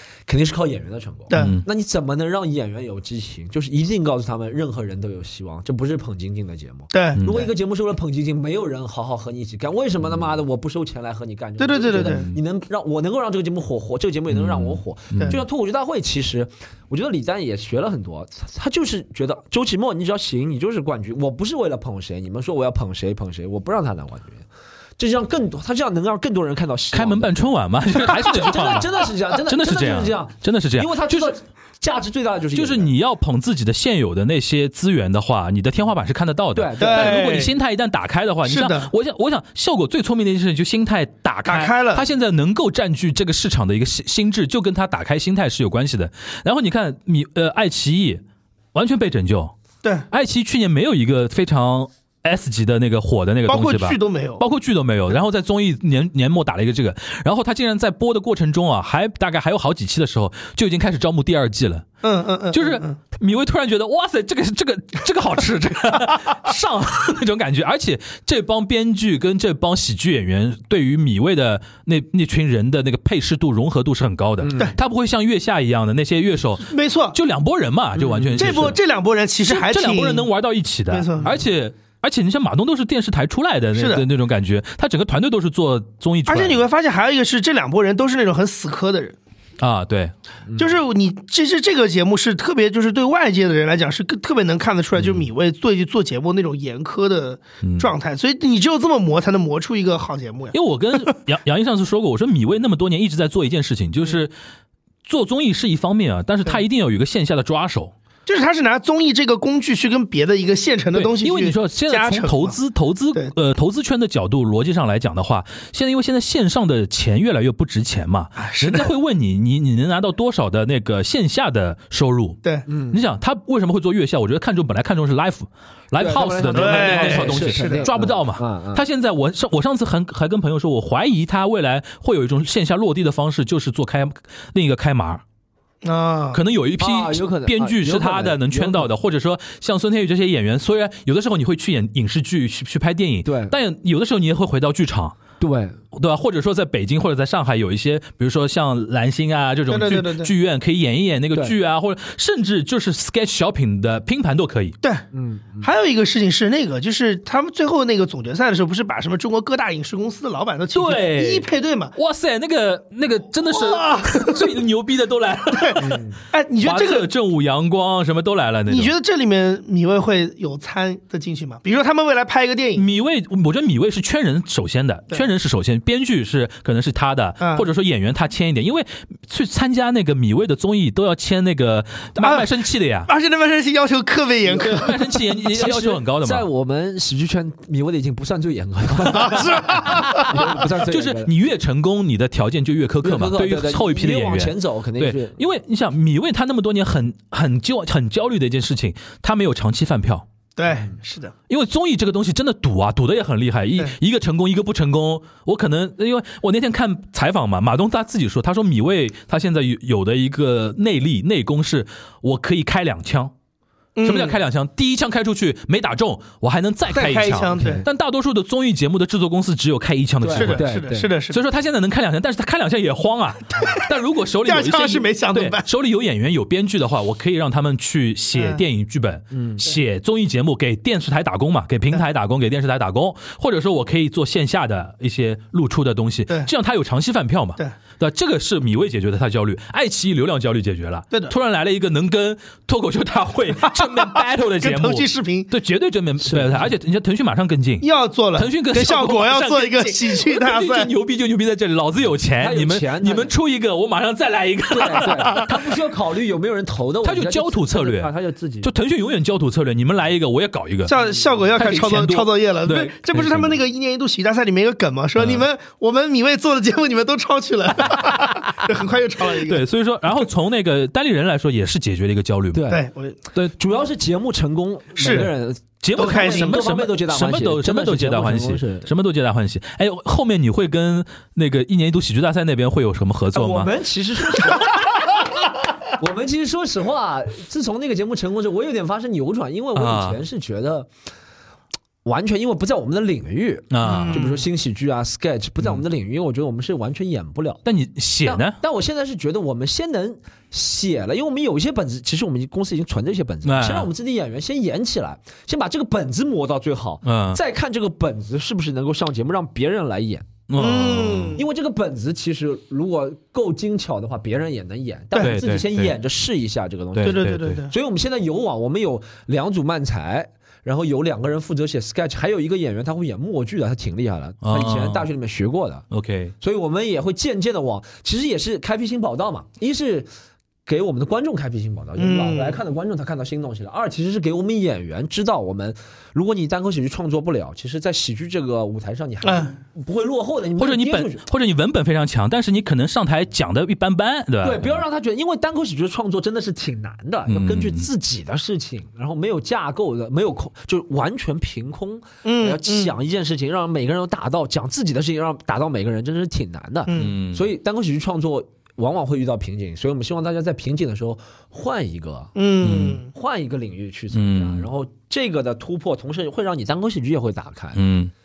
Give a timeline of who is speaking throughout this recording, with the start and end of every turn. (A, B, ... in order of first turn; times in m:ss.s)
0:00.3-0:24.4 A
0:01.3-0:01.6 B
0:01.4-0:01.6 C
0:06.9-0:07.2 B
0:07.2-0:07.5 C
0:11.6-0:12.3 B
0:11.9-0:12.4 C
0:14.3-0:15.4 C
0:25.0-0:27.4 A
0:26.9-0:31.4 C
0:28.0-0:32.9 A
0:32.5-0:48.2 C
0:36.6-0:37.3 A
0:36.8-0:37.5 B
0:38.4-0:38.9 B
0:41.4-0:42.0 B
0:48.7-0:49.5 C
0:50.1-1:01.8 C
0:53.5-0:54.4 B
1:02.0-1:03.0 B
1:02.5-1:18.8 C
1:14.4-1:14.8 A
1:16.6-1:17.2 B
1:18.0-1:18.7 A
1:18.4-1:20.3 B
1:19.5-1:26.6 C
1:20.9-1:21.4 B
1:23.7-1:24.0 B
1:26.3-1:29.2 B
1:29.6-1:30.1 C
1:30.5-1:30.8 A
1:30.6-1:40.6 B
1:37.6-1:37.9 C
1:40.5-1:44.3 C
1:45.0-1:47.9 C
1:48.3-1:52.6 B
1:50.9-2:15.2 C
1:58.4-1:58.9 B
2:02.7-2:03.0 A
2:06.0-2:08.8 A
2:06.5-2:07.9 B
2:15.8-2:16.4 B
2:16.3-2:25.2 C
2:16.8-2:18.9 A
2:23.2-2:23.6 A
2:25.4-2:25.8 A
2:25.9-2:34.8 C
2:29.7-2:30.3 B
2:35.1-2:35.7 A
2:35.6-2:41.9 B
2:40.7-2:46.0 C
2:43.5-2:44.4 B
2:45.5-2:47.1 B
2:45.8-2:46.2 A
2:46.6-2:48.9 C
2:48.7-2:52.8 B
2:52.8-3:03.1 C
2:57.4-2:57.6 B
3:02.2-3:02.5 B
3:03.1-3:05.0 B
3:04.6-3:04.8 A
3:04.6-3:06.4 C
3:05.4-3:11.3 A
3:09.1-3:10.5 B
3:09.9-3:20.3 C
3:13.0-3:15.4 A
3:20.6-3:21.3 B
3:20.6-3:20.9 A
3:21.5-3:33.3 C
3:34.0-3:34.4 B
3:34.0-3:40.7 C
3:36.9-3:37.8 B
3:37.6-3:37.9 A
3:40.2-3:41.1 A
3:40.3-3:41.4 B
3:41.3-4:15.5 C
3:43.6-3:43.8 B
3:44.4-3:45.7 B
3:48.4-3:48.6 B
3:49.3-3:49.6 A
4:03.7-4:05.5 B
4:06.2-4:06.7 A
4:07.8-4:10.9 B
4:12.4-4:13.3 A
4:14.7-4:18.7 A
4:17.0-4:18.1 C
4:18.6-4:20.9 C
4:20.9-4:29.6 B
4:21.6-4:23.6 C
4:25.2-4:25.4 C
4:27.9-4:28.6 C
4:29.4-4:32.7 C
4:32.5-4:32.8 A
4:32.7-4:33.2 B
4:33.4-4:38.9 A
4:35.0-4:35.3 B
4:35.8-4:43.7 C
4:36.0-4:36.6 B
4:43.3-4:45.2 A
4:45.9-4:50.9 A
4:49.7-4:50.2 C
4:52.0-4:57.6 A
4:53.7-4:54.2 C
4:53.8-4:54.4 B
4:57.6-4:58.6 C
4:58.2-5:10.3 A
5:03.4-5:03.9 C
5:07.0-5:07.4 C
5:10.5-5:11.4 C
5:10.6-5:11.4 B
5:11.4-5:25.8 A
5:15.2-5:15.9 C
5:16.9-5:17.6 C
5:17.0-5:17.7 B
5:24.4-5:25.1 C
5:25.9-5:26.3 C
5:26.4-5:30.1 A
5:30.6-5:41.2 A
5:32.0-5:32.6 B
5:39.2-5:39.6 B
5:40.6-5:44.8 C
5:44.4-6:07.8 A
5:47.3-5:47.9 C
5:52.2-5:52.9 B
5:56.8-5:57.1 B
5:56.9-5:57.4 C
6:02.4-6:03.1 B
6:02.6-6:03.0 C
6:04.1-6:04.7 C
6:07.7-6:08.1 C